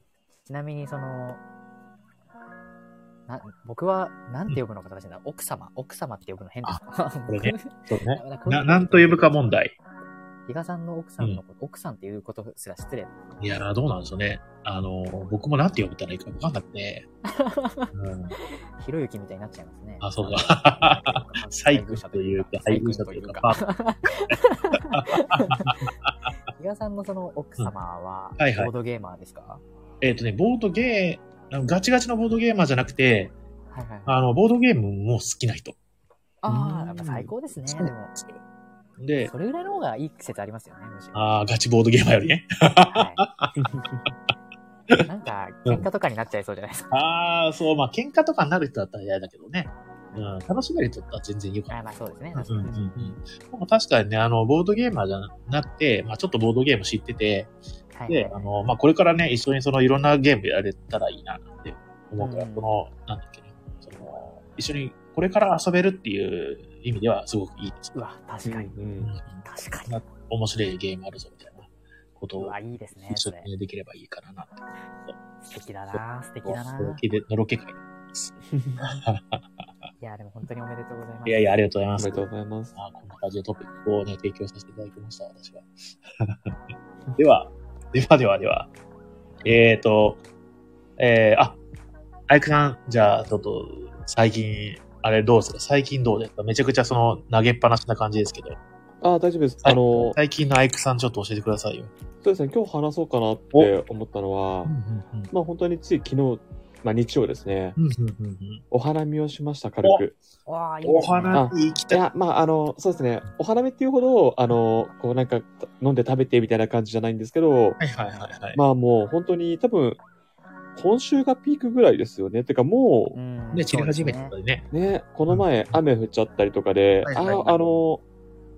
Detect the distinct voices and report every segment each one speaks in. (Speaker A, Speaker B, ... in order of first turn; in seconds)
Speaker A: 0.4-1.4, 3.3-9.5, 10.5-13.5, 17.2-25.7, 26.5-29.6, 33.7-34.2, 36.4-38.1, 39.2-41.3, 42.9-43.2, 45.0-46.9, 50.1-50.4, 51.7-52.8, 57.9-58.5, 62.2-62.7, 67.9-68.7, 69.4-70.0, 72.4-73.5, 75.5-77.0, 80.0-81.5, 110.5-111.5, 123.1-124.3
Speaker B: 6.6-9.8, 13.4-17.1, 17.9-18.4, 20.0-23.6, 24.9-26.3, 28.4-28.7, 30.0-33.4, 34.0-35.8, 37.6-38.4, 39.0-39.3, 41.1-43.5, 46.9-51.8, 52.3-57.5, 58.1-68.0, 69.0-72.5, 73.1-75.1, 75.9-79.4, 81.2-86.6, 87.2-88.7, 89.4-90.2, 91.0-91.6, 92.3-98.6, 99.6-101.9, 104.7-105.3, 107.8-108.6, 110.8-112.0, 117.8-118.6, 123.5-124.7, 125.3-125.8, 127.0-127.6
Speaker C: 36.5-37.3, 43.6-44.0, 52.6-53.2, 68.4-69.1, 78.5-78.8, 82.0-82.7, 99.0-100.2, 102.2-104.7, 105.3-107.8, 108.7-110.2, 111.3-117.8, 118.5-120.0, 120.8-123.2, 124.7-128.0